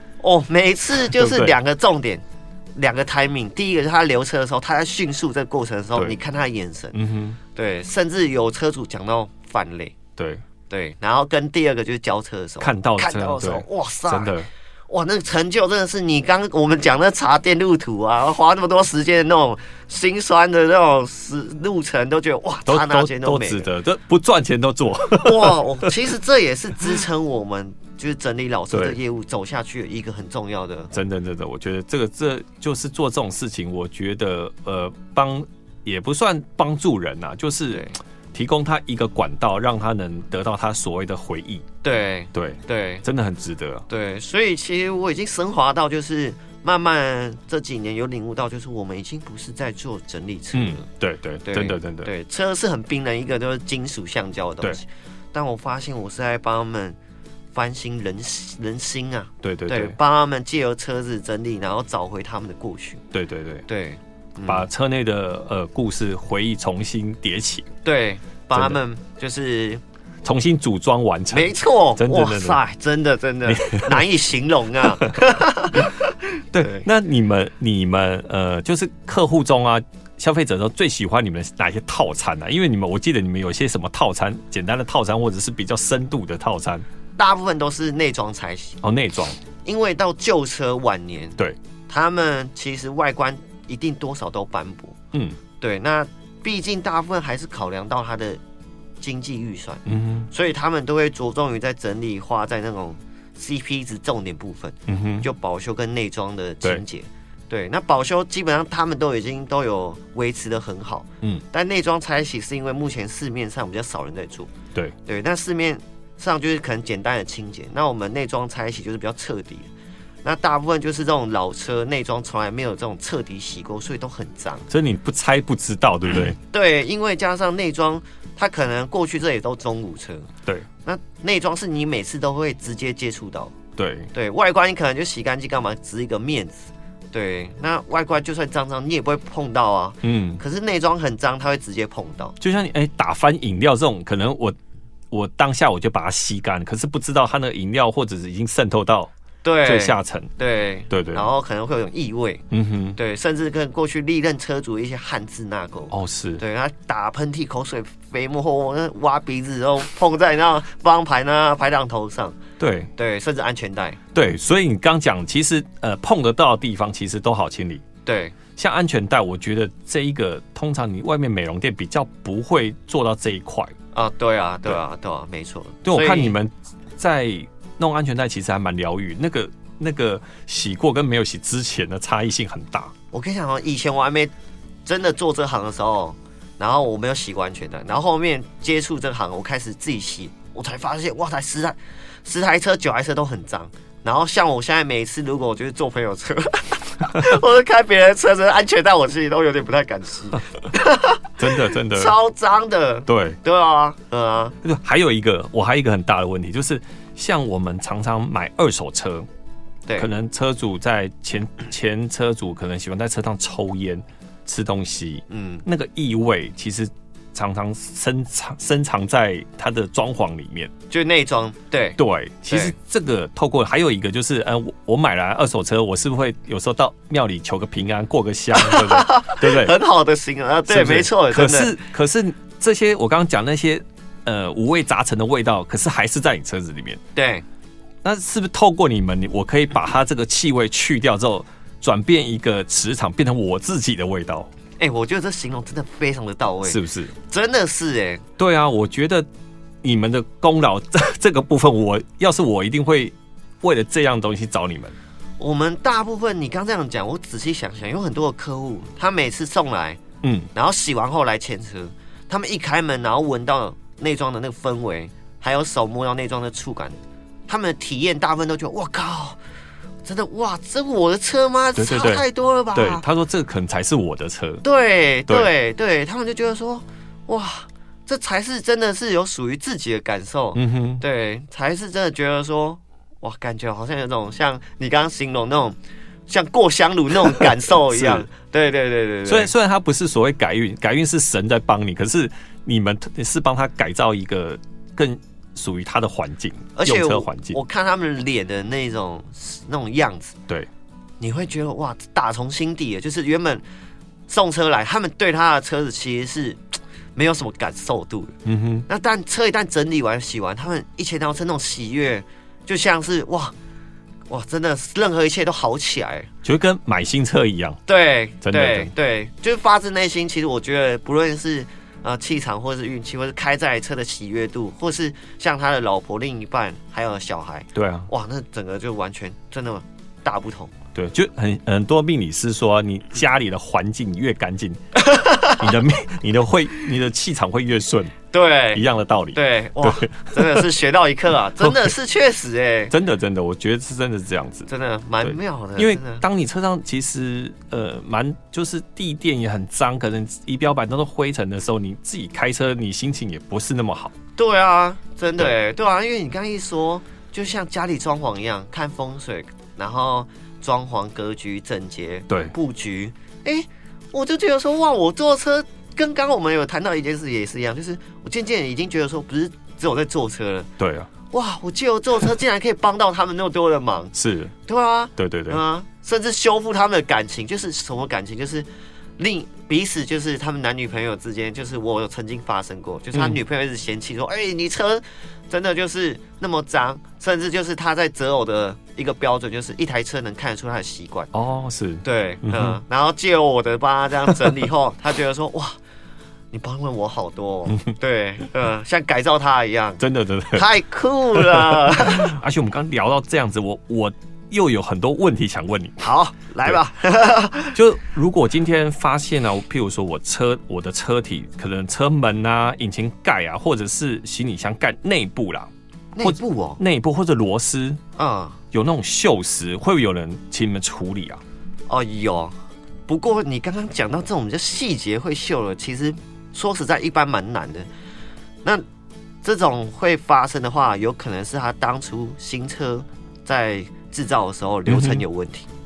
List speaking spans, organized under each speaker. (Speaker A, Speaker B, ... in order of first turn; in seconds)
Speaker A: 0.2-2.2, 2.8-7.0, 7.5-9.9, 10.7-14.4, 14.9-23.7, 25.1-30.9, 37.7-38.0, 41.8-43.0, 43.9-50.9, 51.4-57.0, 57.5-63.0, 63.7-64.7, 67.8-69.8, 71.3-76.9, 87.2-88.8, 89.7-95.0, 95.6-98.4, 99.0-114.5, 115.0-119.7, 120.2-124.7, 126.5-130.3, 130.8-133.5, 134.1-142.4, 149.4-152.4, 152.9-162.4, 163.0-164.0, 168.1-168.4, 173.9-176.3, 183.1-184.3, 184.8-204.6, 215.3-215.7, 220.9-222.0, 222.5-222.8, 228.6-231.8, 237.2-237.4, 244.8-248.2, 255.4-260.0, 260.5-267.0, 267.5-269.4, 270.0-273.1, 274.6-285.8, 286.3-289.5, 296.8-300.4, 301.2-303.6, 304.3-308.4, 308.9-313.5, 314.3-316.3, 317.9-330.7, 335.0-335.7, 338.3-342.9, 344.7-346.2, 354.4-370.7, 371.3-374.1, 374.7-378.7, 379.2-391.3, 392.0-395.8, 396.5-400.0, 400.5-402.4, 406.0-407.8, 416.1-416.8, 418.2-418.6, 421.9-422.6, 423.1-427.9, 429.4-435.7
Speaker B: 1.0-1.6, 6.9-7.4, 10.2-10.4, 12.6-14.5, 22.7-25.9, 28.7-29.0, 30.9-41.7, 42.3-43.9, 50.5-52.1, 59.4-60.0, 63.1-63.7, 64.5-67.7, 68.5-68.8, 70.2-72.6, 73.5-74.1, 76.5-86.8, 88.8-89.4, 95.1-95.4, 99.9-100.3, 104.9-105.3, 124.7-126.4, 133.8-134.1, 140.0-140.4, 142.4-144.6, 145.1-149.1, 149.6-150.3, 150.9-151.3, 152.5-153.0, 155.9-156.4, 162.6-162.9, 164.1-167.8, 168.6-173.7, 175.8-182.9, 201.4-202.2, 203.1-203.4, 204.6-209.3, 210.0-220.7, 222.0-229.7, 230.7-237.0, 238.0-244.5, 246.7-247.1, 248.4-249.3, 249.8-255.0, 260.2-260.5, 271.8-274.6, 280.6-281.0, 287.4-288.3, 289.3-297.6, 308.4-308.9, 316.4-317.8, 318.4-318.9, 327.8-328.1, 330.9-338.1, 338.7-340.7, 341.6-341.9, 342.9-344.7, 345.2-354.1, 362.3-362.5, 370.8-371.1, 374.1-374.5, 375.2-375.6, 383.1-383.4, 391.3-392.8, 400.0-400.7, 401.4-406.0, 407.7-415.7, 416.2-418.0, 418.7-421.4, 434.9-435.2